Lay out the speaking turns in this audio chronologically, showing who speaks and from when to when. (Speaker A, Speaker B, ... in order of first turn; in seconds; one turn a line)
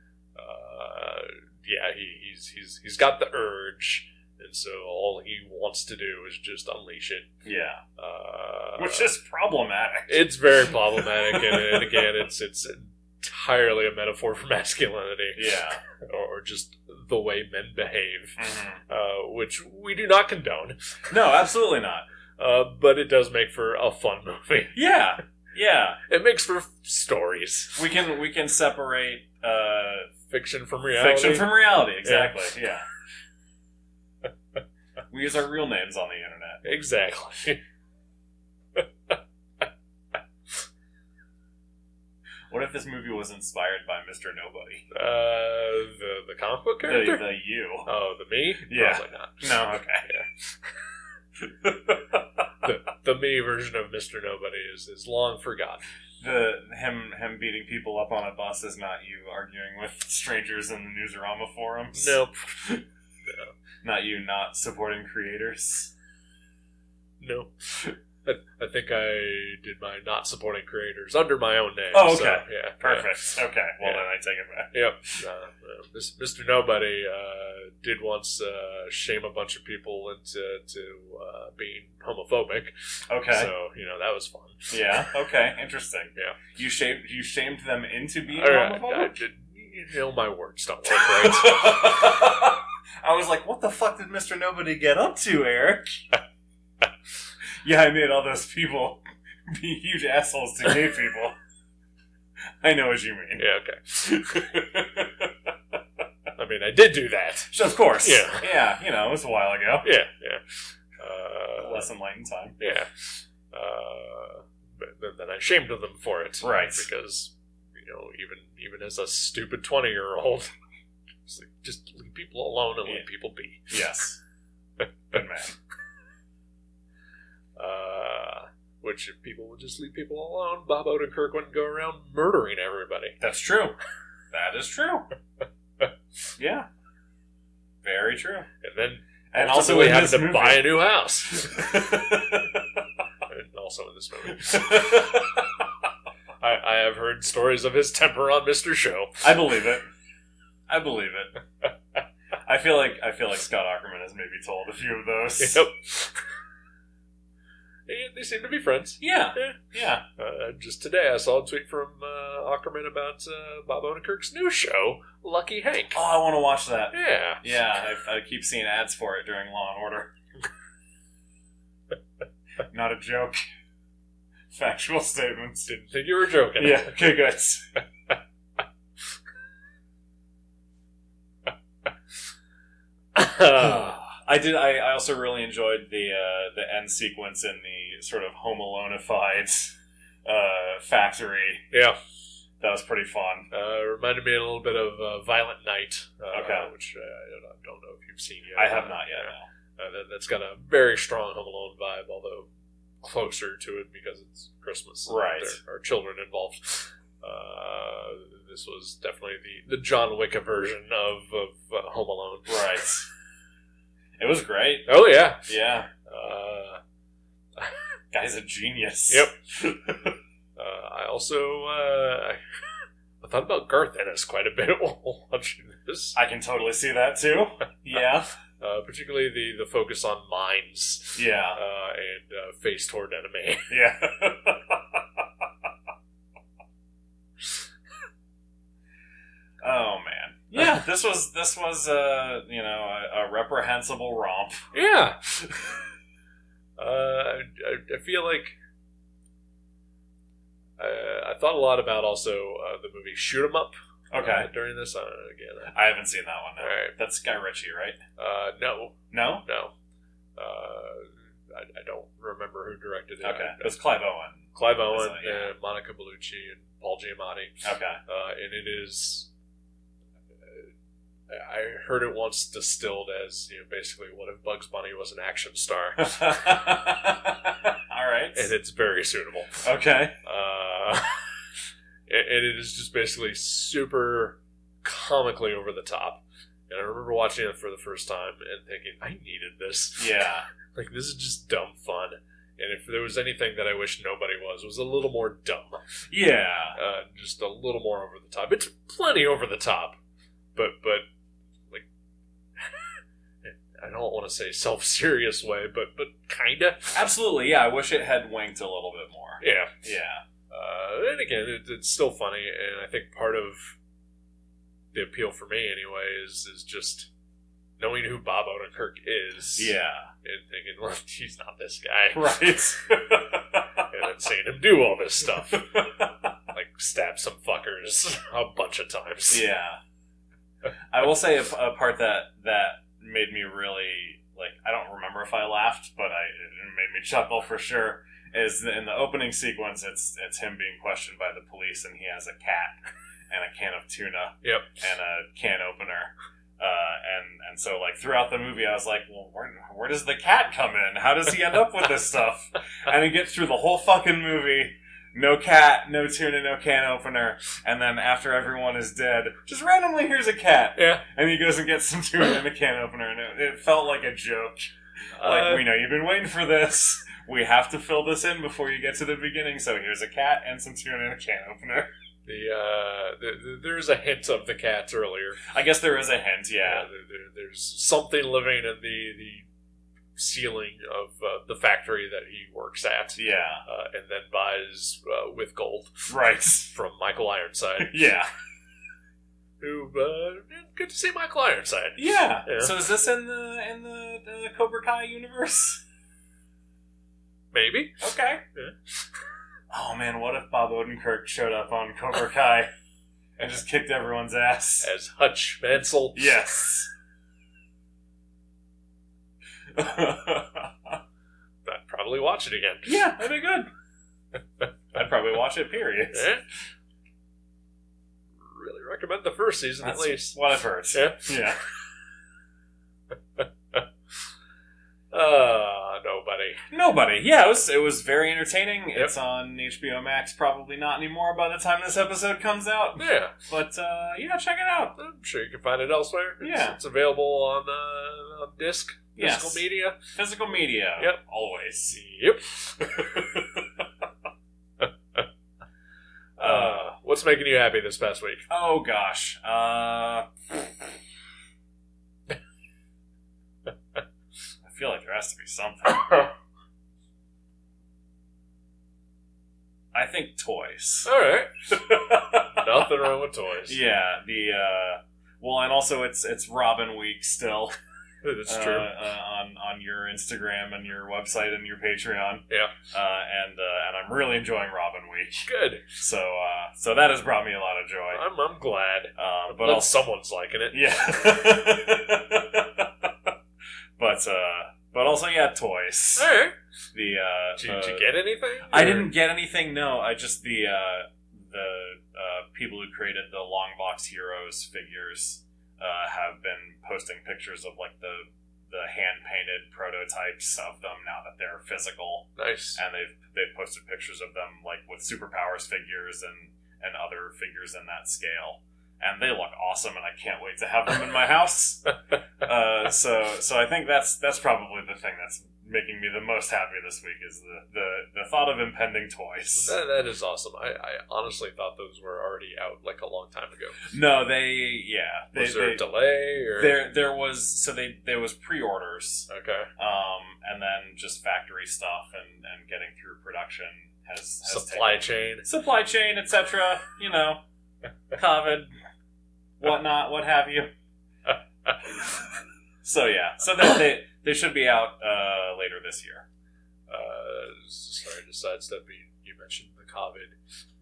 Speaker A: 0.4-7.3
Speaker B: 7.4-7.8
Speaker A: 8.0-9.1
Speaker B: 8.8-12.1
Speaker A: 10.1-20.9
Speaker B: 15.4-15.8
Speaker B: 18.4-18.8
Speaker B: 21.1-22.1
Speaker A: 22.4-24.8
Speaker B: 24.8-26.0
Speaker A: 26.1-27.8
Speaker B: 27.8-30.1
Speaker A: 30.3-32.4
Speaker B: 30.9-32.9
Speaker B: 35.1-36.6
Speaker A: 36.6-37.6
Speaker A: 38.8-39.2
Speaker B: 42.5-44.9
Speaker A: 44.9-47.2
Speaker B: 46.8-47.9
Speaker A: 47.9-49.5
Speaker B: 48.7-50.1
Speaker A: 50.0-50.8
Speaker B: 51.4-52.3
Speaker A: 52.6-55.8
Speaker B: 56.2-62.2
Speaker A: 61.9-63.5
Speaker B: 63.8-65.9
Speaker A: 67.2-74.0
Speaker B: 71.9-75.2
Speaker A: 74.7-85.1
Speaker B: 83.1-83.5
Speaker B: 84.7-89.2
Speaker A: 88.3-92.0
Speaker B: 90.9-96.0
Speaker B: 97.6-101.3
Speaker B: 102.6-103.4
Speaker A: 103.4-104.5
Speaker B: 104.1-105.3
Speaker A: 106.4-108.5
Speaker B: 107.5-109.9
Speaker A: 109.8-111.9
Speaker B: 111.6-112.6
Speaker A: 112.6-120.5
Speaker B: 116.4-116.9
Speaker A: 121.3-123.8
Speaker B: 123.7-124.2
Speaker B: 125.1-125.5
Speaker A: 127.6-133.2
Speaker B: 133.2-133.8
Speaker B: 134.3-135.1
Speaker B: 136.4-136.7
Speaker B: 137.8-138.5
Speaker A: 138.6-141.9
Speaker B: 139.3-142.8
Speaker A: 143.3-145.2
Speaker B: 144.3-145.7
Speaker A: 146.4-149.3
Speaker B: 149.2-149.9
Speaker B: 150.7-151.3
Speaker B: 152.4-155.6
Speaker A: 155.4-156.3
Speaker A: 157.9-159.6
Speaker B: 159.0-160.0
Speaker A: 160.2-166.0
Speaker B: 165.9-170.1
Speaker A: 166.9-167.4
Speaker B: 172.7-173.4
Speaker B: 174.5-175.7
Speaker A: 175.7-176.9
Speaker B: 176.6-177.7
Speaker A: 183.1-184.0
Speaker B: 183.6-191.7
Speaker A: 191.7-192.0
Speaker B: 192.6-193.5
Speaker A: 193.5-202.5
Speaker B: 196.3-196.7
Speaker B: 198.6-199.4
Speaker A: 203.0-212.6
Speaker B: 205.1-205.6
Speaker B: 212.5-213.1
Speaker B: 214.2-214.9
Speaker A: 214.9-215.5
Speaker B: 215.4-215.9
Speaker A: 216.1-216.8
Speaker A: 217.6-217.8
Speaker B: 218.1-220.1
Speaker A: 219.1-219.3
Speaker A: 220.6-226.2
Speaker B: 226.2-228.3
Speaker A: 228.6-233.8
Speaker B: 231.2-231.6
Speaker B: 233.7-235.2
Speaker B: 239.6-244.7
Speaker A: 244.7-245.8
Speaker A: 246.8-248.6
Speaker A: 250.8-255.7
Speaker B: 254.1-254.5
Speaker B: 255.7-258.0
Speaker A: 256.6-256.9
Speaker A: 258.2-259.7
Speaker B: 259.1-259.4
Speaker A: 260.4-263.7
Speaker B: 263.2-265.5
Speaker A: 264.5-269.3
Speaker B: 267.6-268.0
Speaker A: 271.3-276.6
Speaker B: 276.0-278.5
Speaker A: 278.4-279.7
Speaker B: 279.6-280.2
Speaker A: 280.2-281.2
Speaker A: 282.1-290.2
Speaker B: 290.0-290.5
Speaker A: 290.7-295.8
Speaker B: 296.1-296.8
Speaker A: 296.7-300.0
Speaker A: 300.6-301.1
Speaker A: 302.6-307.0
Speaker B: 306.9-310.2
Speaker A: 309.4-309.7
Speaker A: 310.5-313.8
Speaker A: 314.9-317.1
Speaker A: 317.8-322.5
Speaker B: 319.6-320.1
Speaker B: 322.1-323.9
Speaker A: 323.9-325.8
Speaker B: 325.5-326.3
Speaker A: 326.5-329.4
Speaker B: 329.3-329.8
Speaker B: 330.9-342.8
Speaker B: 343.3-371.9
Speaker A: 360.8-361.0
Speaker A: 365.2-365.7
Speaker A: 372.3-375.4
Speaker B: 375.4-376.9
Speaker A: 376.6-379.4
Speaker A: 380.2-386.1
Speaker B: 383.2-383.6
Speaker B: 386.1-386.7
Speaker A: 386.7-388.0
Speaker B: 387.8-388.3
Speaker A: 389.6-392.7
Speaker B: 392.0-395.8
Speaker A: 397.5-399.1
Speaker B: 398.0-398.4
Speaker B: 399.7-402.7
Speaker B: 403.4-404.9
Speaker A: 404.8-406.2
Speaker B: 406.1-406.9
Speaker B: 409.7-411.0
Speaker A: 411.7-413.0
Speaker B: 412.9-413.7
Speaker B: 414.9-416.3
Speaker A: 416.1-416.4
Speaker A: 418.4-420.4
Speaker B: 419.8-421.6
Speaker A: 420.9-421.5
Speaker A: 423.4-423.8
Speaker A: 425.1-426.6
Speaker B: 426.7-434.9
Speaker A: 433.0-433.3
Speaker A: 434.9-440.0
Speaker B: 436.4-436.8
Speaker B: 439.2-439.6
Speaker B: 440.1-442.0
Speaker A: 441.9-443.4
Speaker B: 443.1-443.6
Speaker A: 444.8-445.2
Speaker A: 446.4-448.4
Speaker B: 446.4-446.8
Speaker B: 448.5-450.9
Speaker B: 454.6-456.3
Speaker B: 459.9-461.1
Speaker A: 461.1-463.8
Speaker B: 461.7-462.9
Speaker B: 463.7-467.7
Speaker A: 468.2-468.9
Speaker B: 468.5-478.2
Speaker A: 472.5-472.7
Speaker A: 475.4-475.9
Speaker A: 478.1-481.6
Speaker B: 479.2-479.9
Speaker B: 480.7-483.3
Speaker B: 484.0-486.3
Speaker A: 486.2-486.6
Speaker B: 486.9-488.1
Speaker A: 487.6-489.1
Speaker B: 488.7-519.7
Speaker A: 502.4-502.8
Speaker A: 519.5-523.8
Speaker B: 523.8-525.8
Speaker A: 525.4-526.8
Speaker B: 526.6-537.4
Speaker A: 529.3-529.7
Speaker A: 534.5-535.5
Speaker B: 538.1-538.7
Speaker B: 539.6-540.7
Speaker B: 541.8-542.1
Speaker B: 542.8-546.3
Speaker A: 546.9-550.4